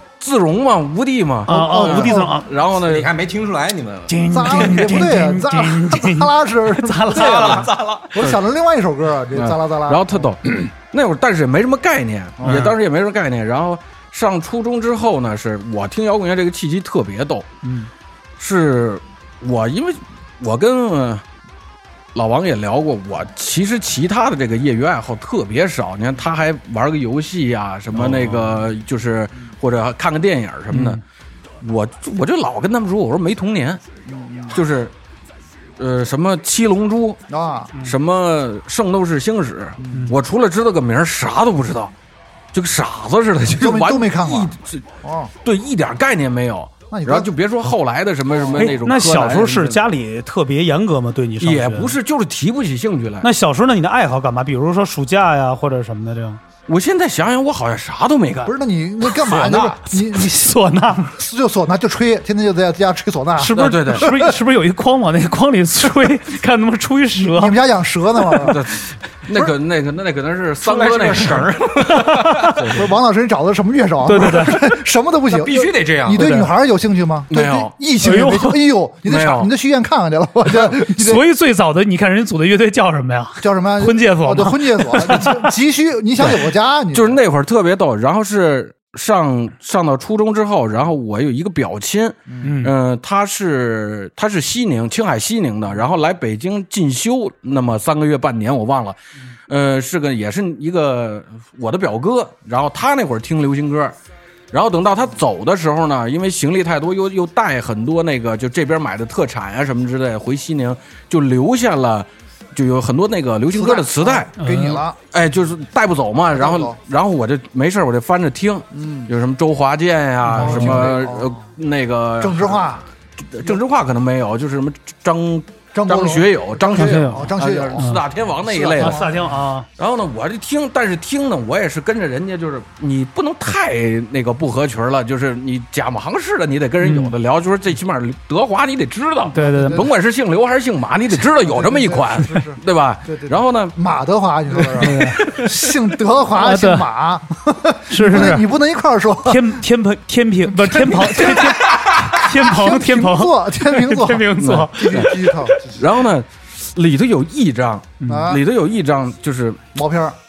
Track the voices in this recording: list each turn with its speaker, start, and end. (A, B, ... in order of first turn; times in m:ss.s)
0:00.2-0:03.1 A
0:01.5-0:02.5 B
0:01.5-0:02.4 C
0:02.7-0:04.8 D
0:04.1-0:07.7 B
0:04.3-0:10.3 C
0:07.1-0:08.1 D
0:09.3-0:17.5 A
0:12.4-0:12.7 C
0:12.4-0:12.7 B
0:17.6-0:17.9 B
0:18.4-0:21.2 A
0:22.1-0:31.0 A
0:27.9-0:28.6 B
0:30.7-0:31.0 B
0:31.6-0:33.8 A
0:34.0-0:34.6 C
0:34.5-0:34.9 A
0:35.8-0:37.2 A
0:37.3-0:37.7 C
0:37.7-0:41.9 A
0:39.8-0:40.1 C
0:42.5-0:44.9 A
0:43.5-0:45.3 C
0:45.4-0:49.8 A
0:46.9-0:47.3 C
0:48.3-0:48.8 C
0:48.5-0:51.9 B
0:51.4-0:53.3 A
0:53.2-0:56.4 B
0:56.7-0:58.5 A
0:58.4-1:00.5 C
0:59.2-0:59.6 D
0:59.9-1:01.2 B
1:01.1-1:04.3 C
1:03.4-1:07.6 B
1:03.5-1:04.1 A
1:07.2-1:08.6 C
1:08.4-1:11.7 A
1:10.6-1:12.7 D
1:11.9-1:12.6 B
1:12.5-1:12.9 A
1:12.7-1:21.2 C
1:14.0-1:14.7 B
1:15.3-1:16.3 D
1:16.1-1:16.5 B
1:17.3-1:17.7 A
1:18.0-1:18.6 B
1:19.0-1:19.5 A
1:20.6-1:25.5 B
1:23.4-1:27.2 C
1:26.9-1:44.0 A
1:32.4-1:32.7 B
1:44.5-1:54.3 A
1:53.5-1:55.0 C
1:54.4-1:54.8 B
1:55.1-2:09.1 A
1:56.3-1:56.8 C
1:58.7-1:59.1 C
2:00.2-2:00.9 B
2:00.3-2:01.3 C
2:02.2-2:02.8 C
2:05.7-2:09.2 C
2:06.7-2:08.0 B
2:08.8-2:09.7 B
2:09.8-2:23.7 A
2:16.8-2:17.1 B
2:19.3-2:19.8 B
2:19.3-2:19.9 C
2:21.2-2:29.6 C
2:24.8-2:25.5 B
2:26.3-2:26.9 B
2:27.9-2:28.5 B
2:29.2-2:35.6 B
2:30.5-2:35.6 C
2:34.4-2:39.7 A
2:38.0-2:38.3 B
2:38.0-2:38.4 C
2:39.7-2:40.2 C